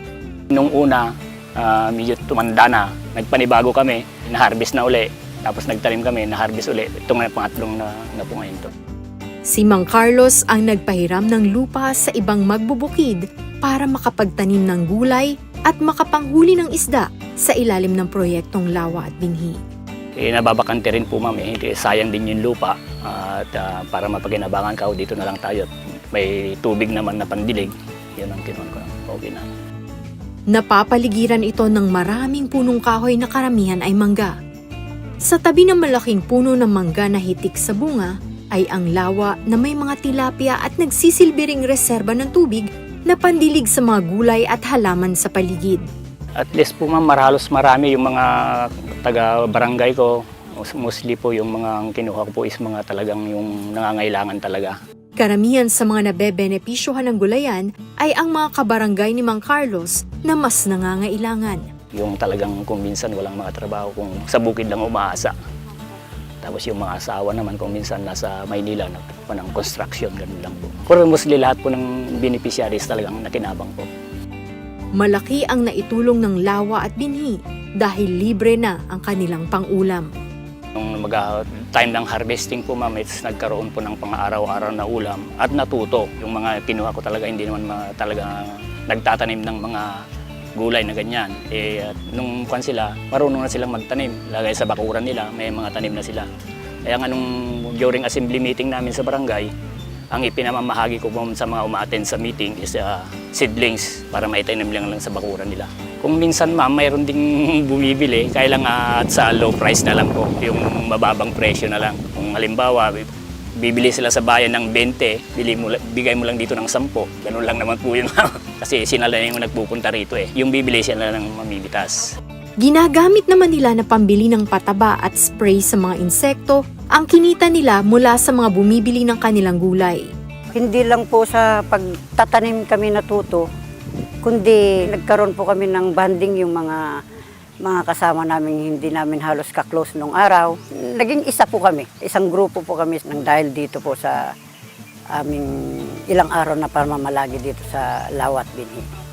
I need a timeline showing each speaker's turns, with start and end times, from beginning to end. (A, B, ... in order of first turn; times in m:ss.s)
0:00.5-0:08.7 A
0:09.4-0:19.6 B
0:20.2-0:29.5 A
0:30.5-0:34.4 B
0:35.2-0:45.8 B
0:46.4-0:54.7 A
0:55.2-1:01.7 B
1:01.9-1:05.3 A
1:06.4-1:13.9 A
1:15.0-1:20.1 B
1:20.7-1:30.0 A
1:30.5-1:36.3 A
1:36.8-1:39.5 A
1:40.1-1:53.1 A
1:53.6-2:02.0 A
2:02.6-2:10.1 B
2:10.5-2:13.4 C
2:14.2-2:16.8 C
2:17.6-2:24.2 C
2:25.2-2:28.8 C